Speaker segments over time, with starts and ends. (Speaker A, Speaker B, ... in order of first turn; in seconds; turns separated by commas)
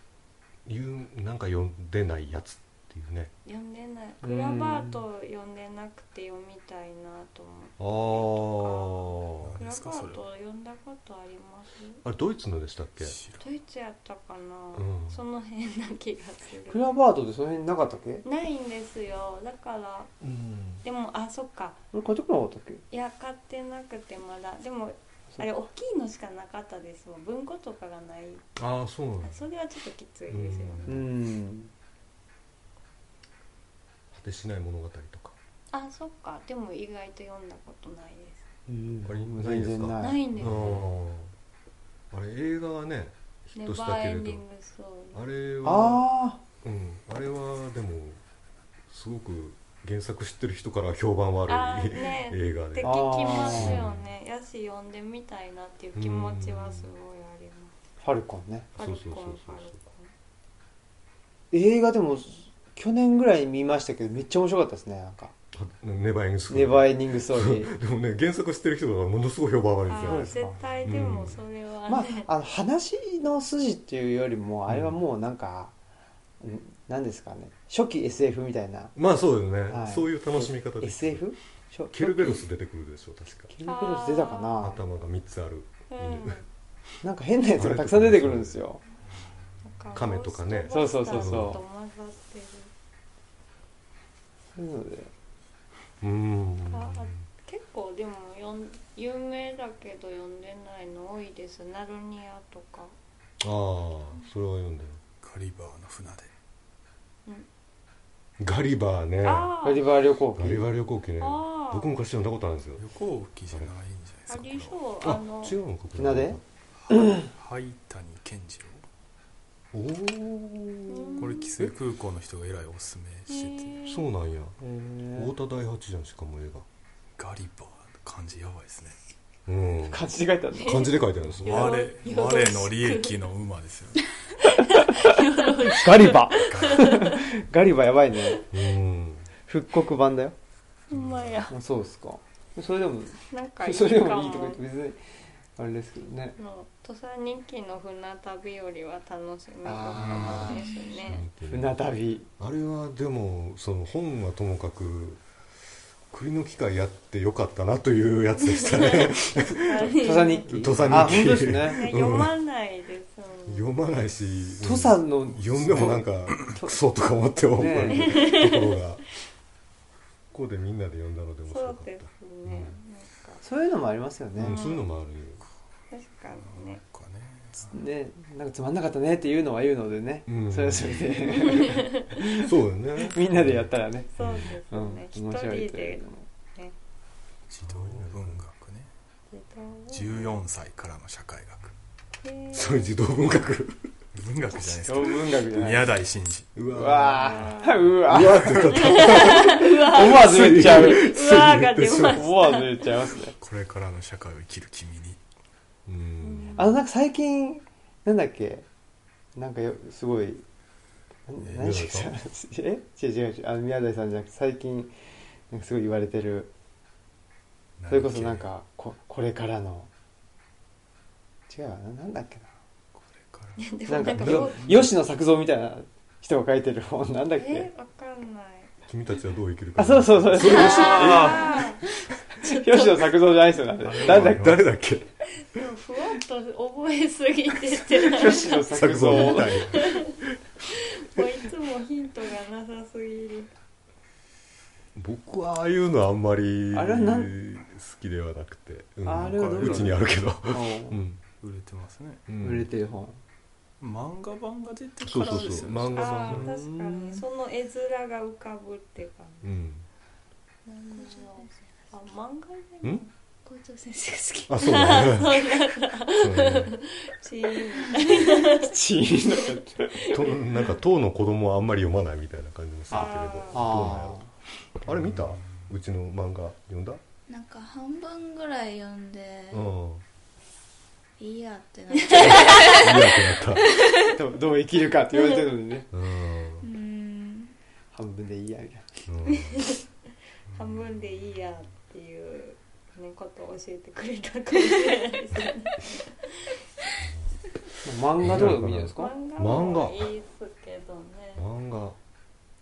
Speaker A: 0.6-3.3, Speaker B: 3.4-12.0, Speaker C: 4.2-5.0, Speaker A: 7.8-9.6, Speaker D: 9.4-10.2, Speaker A: 12.0-13.2, Speaker D: 13.0-13.4, Speaker B: 13.4-16.9, Speaker A: 14.7-15.2, Speaker C: 16.7-18.2, Speaker B: 18.2-20.1, Speaker A: 20.2-20.8, Speaker B: 20.8-21.8, Speaker C: 21.9-22.8, Speaker B: 22.9-28.4, Speaker A: 28.6-29.3, Speaker B: 29.2-31.1, Speaker A: 30.3-31.0, Speaker C: 30.9-31.7, Speaker A: 34.1-35.3, Speaker B: 35.7-38.5, Speaker C: 38.7-40.8, Speaker A: 39.0-41.3, Speaker B: 40.0-40.8, Speaker A: 42.1-44.4, Speaker B: 43.5-45.2, Speaker A: 45.1-46.0, Speaker C: 45.6-46.4, Speaker A: 46.6-48.2, Speaker A: 48.9-54.0, Speaker B: 51.5-57.7, Speaker C: 52.8-53.8, Speaker A: 56.0-56.9, Speaker C: 58.0-58.7, Speaker A: 58.8-59.7, Speaker B: 58.8-60.1, Speaker C: 61.5-65.3, Speaker A: 65.5-70.3, Speaker C: 66.5-67.7, Speaker B: 69.9-72.3, Speaker C: 70.0-70.6, Speaker D: 70.6-71.3, Speaker A: 70.8-71.4, Speaker C: 71.9-75.7, Speaker A: 74.7-75.0, Speaker C: 76.4-78.9, Speaker A: 79.0-81.2, Speaker C: 79.7-82.4, Speaker A: 81.9-83.5, Speaker C: 83.5-84.8, Speaker B: 83.6-84.7, Speaker A: 84.6-86.4, Speaker B: 85.9-86.4, Speaker C: 87.0-88.8, Speaker A: 87.5-88.6, Speaker B: 89.6-92.7, Speaker A: 89.9-91.6, Speaker C: 90.7-91.6, Speaker C: 94.5-95.1, Speaker A: 96.0-97.1, Speaker B: 96.7-102.9, Speaker A: 103.4-105.0, Speaker D: 105.2-106.3, Speaker A: 108.4-109.5, Speaker B: 109.2-109.9, Speaker C: 109.6-110.7, Speaker A: 110.4-112.8, Speaker B: 111.2-111.9, Speaker D: 112.8-114.8, Speaker B: 114.3-115.6, Speaker A: 115.0-116.4, Speaker C: 116.0-116.4, Speaker D: 116.8-118.8, Speaker C: 116.9-117.2, Speaker A: 119.7-121.7, Speaker B: 120.9-121.5, Speaker D: 121.2-123.8, Speaker B: 123.3-124.1, Speaker A: 123.8-124.6, Speaker C: 124.6-125.3, Speaker A: 125.1-126.7, Speaker D: 127.2-129.0, Speaker A: 129.4-130.0, Speaker C: 129.9-130.9, Speaker B: 130.6-133.1, Speaker A: 130.6-131.8, Speaker D: 131.4-134.1, Speaker B: 134.5-137.2, Speaker C: 135.0-138.4, Speaker D: 136.4-137.0, Speaker A: 138.5-139.3, Speaker C: 139.5-140.3, Speaker B: 140.9-141.5, Speaker D: 140.9-141.4, Speaker C: 141.5-145.0, Speaker B: 143.3-144.6, Speaker C: 145.6-146.3, Speaker B: 146.4-151.2, Speaker C: 149.6-150.6, Speaker D: 149.9-150.5, Speaker E: 150.4-151.0, Speaker A: 151.0-151.8, Speaker C: 151.5-152.3, Speaker A: 152.4-155.2, Speaker A: 156.1-162.3, Speaker B: 158.5-163.7, Speaker C: 160.0-161.8, Speaker D: 160.8-161.1, Speaker A: 163.5-169.0, Speaker C: 164.6-166.8, Speaker C: 167.5-168.2, Speaker B: 167.9-168.8, Speaker A: 170.3-172.7, Speaker B: 171.5-173.4, Speaker C: 173.4-174.6, Speaker A: 174.4-175.4, Speaker B: 174.4-174.8, Speaker B: 175.9-176.8, Speaker D: 176.3-177.8, Speaker C: 177.7-182.5, Speaker A: 180.3-181.6, Speaker B: 181.5-182.1, Speaker A: 182.3-183.7, Speaker C: 183.0-184.1, Speaker B: 184.2-186.0, Speaker A: 184.2-184.4, Speaker C: 184.7-186.3, Speaker D: 187.5-188.9, Speaker A: 187.6-188.4, Speaker B: 189.3-190.3, Speaker D: 189.9-191.7, Speaker B: 192.2-193.0, Speaker A: 192.5-193.9, Speaker D: 194.1-196.5, Speaker C: 194.8-195.9, Speaker A: 196.5-197.5, Speaker C: 196.7-201.1, Speaker B: 197.1-197.9, Speaker A: 198.1-202.2, Speaker B: 198.7-202.8, Speaker C: 202.1-203.3, Speaker D: 203.4-205.2, Speaker A: 205.9-206.7, Speaker B: 206.2-206.8, Speaker C: 206.6-208.7, Speaker C: 209.3-210.4, Speaker C: 211.3-214.9, Speaker D: 211.4-211.7, Speaker A: 211.6-212.1, Speaker C: 215.5-216.5, Speaker D: 217.8-218.4, Speaker C: 217.9-219.9, Speaker C: 221.5-222.5, Speaker D: 222.9-223.6, Speaker B: 223.6-224.6, Speaker C: 223.9-227.7, Speaker A: 224.2-224.9, Speaker B: 227.4-228.7, Speaker A: 228.9-231.4, Speaker C: 229.8-231.5, Speaker B: 230.5-231.9, Speaker D: 230.6-231.7, Speaker B: 232.4-233.1, Speaker C: 232.4-234.6, Speaker D: 233.8-234.7, Speaker A: 234.0-235.1, Speaker B: 235.4-240.1, Speaker A: 237.9-240.3, Speaker C: 238.1-239.6, Speaker B: 240.7-243.5, Speaker A: 244.9-251.2, Speaker C: 246.7-247.3, Speaker C: 249.0-251.0, Speaker D: 249.1-250.1, Speaker D: 251.4-252.2, Speaker A: 252.3-252.7, Speaker C: 252.4-253.2, Speaker D: 253.8-256.4, Speaker A: 255.0-256.5, Speaker B: 255.2-259.5, Speaker C: 256.3-257.2, Speaker A: 259.4-259.8, Speaker B: 260.6-263.1, Speaker E: 260.9-261.5, Speaker E: 263.4-265.3, Speaker A: 264.5-265.4, Speaker B: 264.5-268.7, Speaker A: 266.1-266.7, Speaker E: 267.7-268.1, Speaker C: 268.4-270.2, Speaker B: 269.9-270.4, Speaker A: 270.0-274.2, Speaker B: 272.9-273.9, Speaker C: 272.9-274.3, Speaker A: 274.8-277.0, Speaker D: 274.9-275.7, Speaker E: 277.3-279.7, Speaker A: 279.5-280.0, Speaker E: 281.2-284.1, Speaker A: 282.1-283.7, Speaker C: 284.1-285.9, Speaker A: 285.9-286.7, Speaker E: 286.6-287.5, Speaker C: 287.9-289.0, Speaker A: 289.1-289.7, Speaker B: 289.3-289.8, Speaker D: 290.5-291.6, Speaker B: 290.5-296.5, Speaker A: 297.0-297.3, Speaker C: 297.8-299.1, Speaker A: 298.2-300.1, Speaker B: 298.9-301.4, Speaker A: 301.4-302.0